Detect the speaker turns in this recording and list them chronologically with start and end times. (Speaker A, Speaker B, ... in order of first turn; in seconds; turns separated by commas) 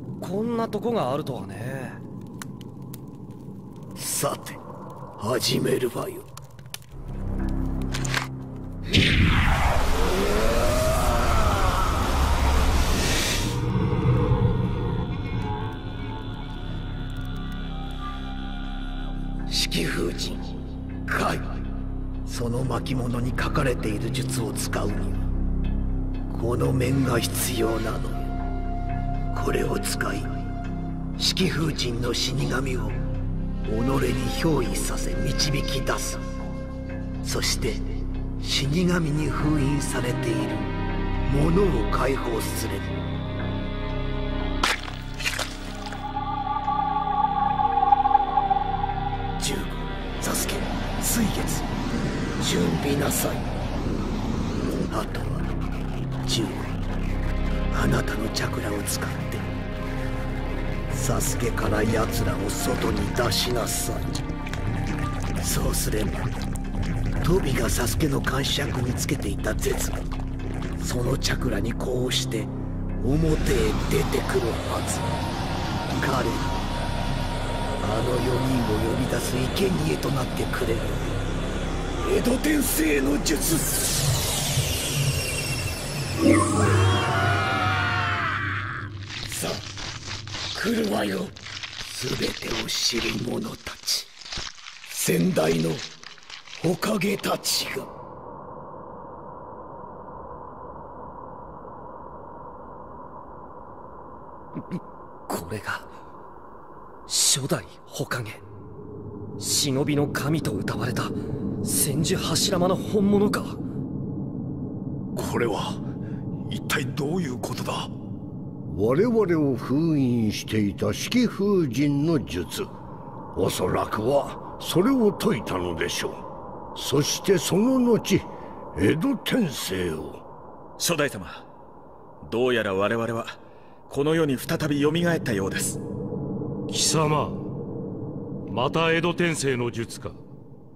Speaker A: 0.2-2.0, Speaker B: 4.0-4.6, Speaker B: 5.2-6.3, Speaker B: 19.5-20.5, Speaker B: 21.1-21.5, Speaker B: 22.2-25.3, Speaker B: 26.3-28.2, Speaker B: 29.3-30.3, Speaker B: 31.2-33.0, Speaker B: 33.6-36.2, Speaker B: 37.2-40.7, Speaker B: 41.2-43.0, Speaker B: 49.4-51.7, Speaker B: 52.4-53.5, Speaker B: 54.9-55.5, Speaker B: 56.2-56.8, Speaker B: 57.7-59.5, Speaker B: 60.9-64.2, Speaker B: 65.4-66.3, Speaker B: 67.2-70.1, Speaker B: 70.8-75.2, Speaker B: 75.9-76.6, Speaker B: 77.8-81.2, Speaker B: 82.0-83.9, Speaker B: 89.2-89.6, Speaker B: 90.5-91.3, Speaker B: 91.8-94.1, Speaker B: 94.9-95.9, Speaker B: 96.6-97.9, Speaker A: 104.7-105.9, Speaker A: 107.1-108.4, Speaker A: 109.4-113.6, Speaker C: 115.2-115.8, Speaker C: 116.5-117.9, Speaker D: 118.7-122.7, Speaker D: 123.3-126.2, Speaker D: 126.7-130.2, Speaker E: 130.8-131.4, Speaker E: 132.2-133.4, Speaker E: 133.9-135.8, Speaker F: 136.7-137.4, Speaker F: 138.5-140.2